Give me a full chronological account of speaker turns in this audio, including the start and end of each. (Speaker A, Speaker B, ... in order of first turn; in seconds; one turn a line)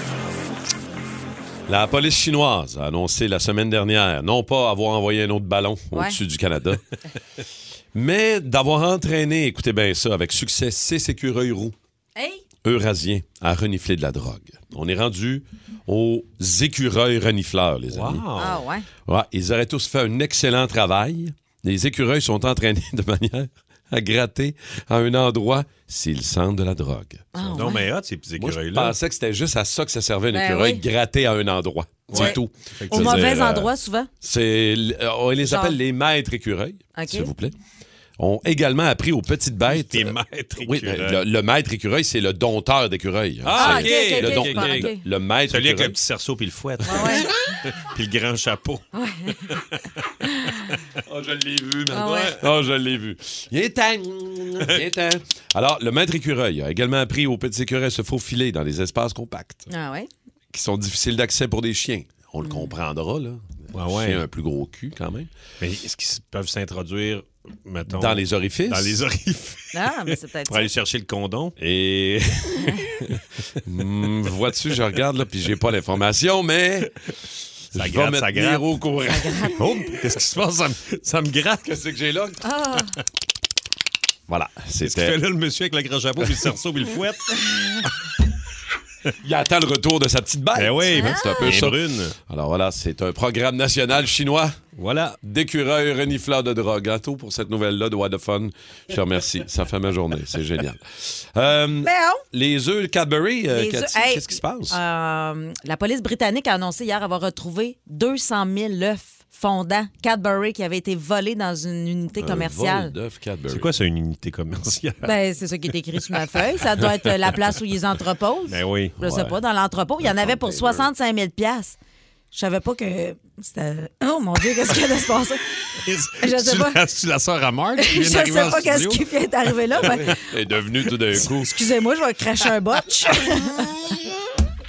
Speaker A: 1.7-6.8
Speaker A: 7.9-11.7
Speaker B: 12.2-12.4
Speaker A: 12.6-18.2
Speaker C: 17.9-18.6
Speaker B: 18.4-18.8
Speaker A: 19.1-27.3
Speaker B: 27.3-27.9
Speaker C: 27.4-28.9
Speaker A: 28.4-33.7
Speaker B: 30.3-30.8
Speaker C: 32.1-33.3
Speaker B: 32.1-32.4
Speaker B: 32.9-34.1
Speaker A: 34.2-37.5
Speaker B: 35.4-35.8
Speaker B: 37.0-37.3
Speaker A: 38.2-46.0
Speaker C: 39.7-41.2
Speaker C: 43.4-44.9
Speaker B: 43.5-45.0
Speaker C: 45.5-48.9
Speaker B: 46.8-47.3
Speaker B: 49.0-49.3
Speaker C: 49.5-49.8
Speaker A: 51.0-59.7
Speaker B: 51.9-52.3
Speaker B: 59.7-60.1
Speaker A: 60.5-65.3
Speaker B: 62.4-62.7
Speaker C: 63.7-64.2
Speaker C: 65.6-71.5
Speaker A: 67.9-69.0
Speaker B: 69.7-70.7
Speaker A: 71.6-76.9
Speaker A: 77.7-79.8
Speaker C: 77.7-78.6
Speaker B: 79.1-79.5
Speaker C: 79.5-81.6
Speaker A: 81.6-82.4
Speaker B: 82.4-82.9
Speaker A: 84.3-85.2
Speaker C: 84.8-87.9
Speaker A: 89.2-94.6
Speaker C: 90.5-92.2
Speaker B: 90.9-91.5
Speaker C: 94.8-95.2
Speaker A: 95.2-104.8
Speaker B: 101.8-102.2
Speaker B: 103.5-112.9
Speaker A: 112.2-113.7
Speaker C: 113.5-115.2
Speaker B: 115.0-121.8
Speaker C: 118.5-119.3
Speaker A: 120.0-120.9
Speaker B: 122.3-125.4
Speaker C: 125.8-129.0
Speaker B: 126.2-126.8
Speaker B: 127.8-130.2
Speaker C: 129.7-130.2
Speaker A: 130.1-131.5
Speaker B: 131.1-133.7